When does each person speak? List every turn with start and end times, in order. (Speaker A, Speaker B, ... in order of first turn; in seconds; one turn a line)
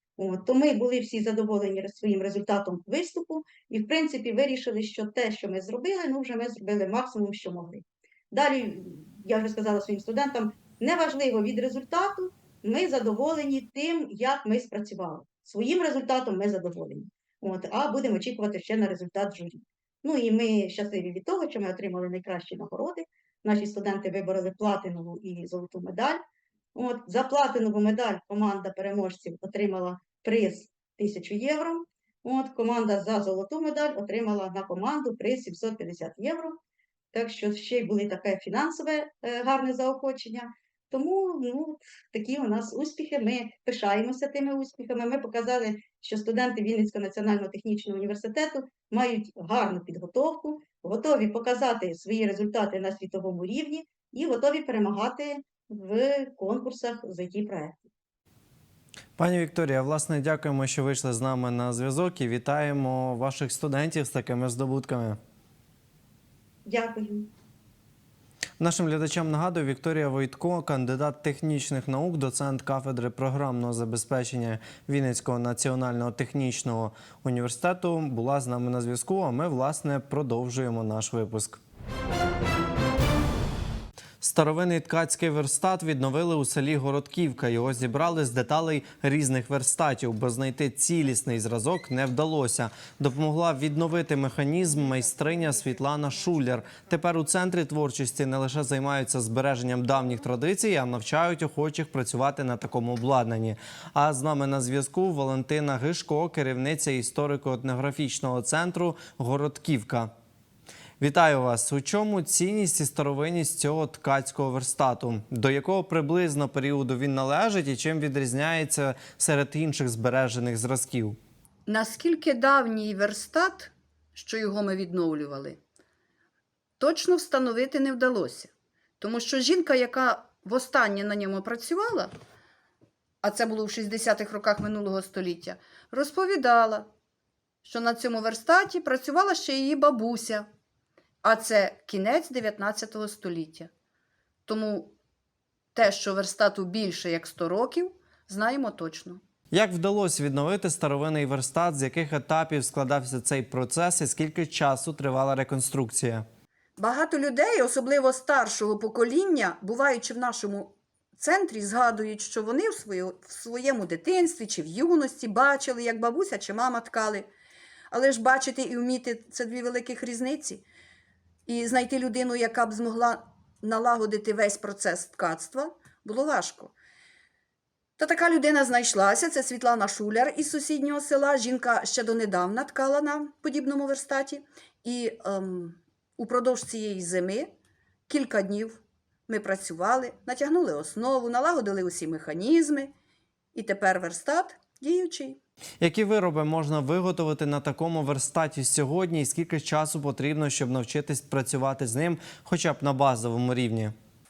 Speaker A: 0.2-26.2
Speaker A: 26.7-36.6
Speaker A: 37.1-57.8
Speaker B: 59.2-65.2
Speaker A: 66.7-67.3
Speaker B: 68.6-81.6
Speaker B: 84.2-110.1
Speaker B: 111.0-121.2
Speaker C: 121.7-125.6
Speaker C: 126.8-132.1
Speaker C: 133.2-136.9
Speaker C: 137.6-140.5
Speaker C: 141.2-143.7
Speaker C: 144.5-144.9
Speaker C: 145.7-149.2
Speaker B: 149.5-156.2
Speaker C: 156.8-167.3
Speaker C: 167.9-170.6
Speaker C: 171.5-176.7
Speaker C: 178.0-187.5
Speaker C: 188.1-192.9
Speaker C: 193.5-195.4
Speaker B: 195.8-203.9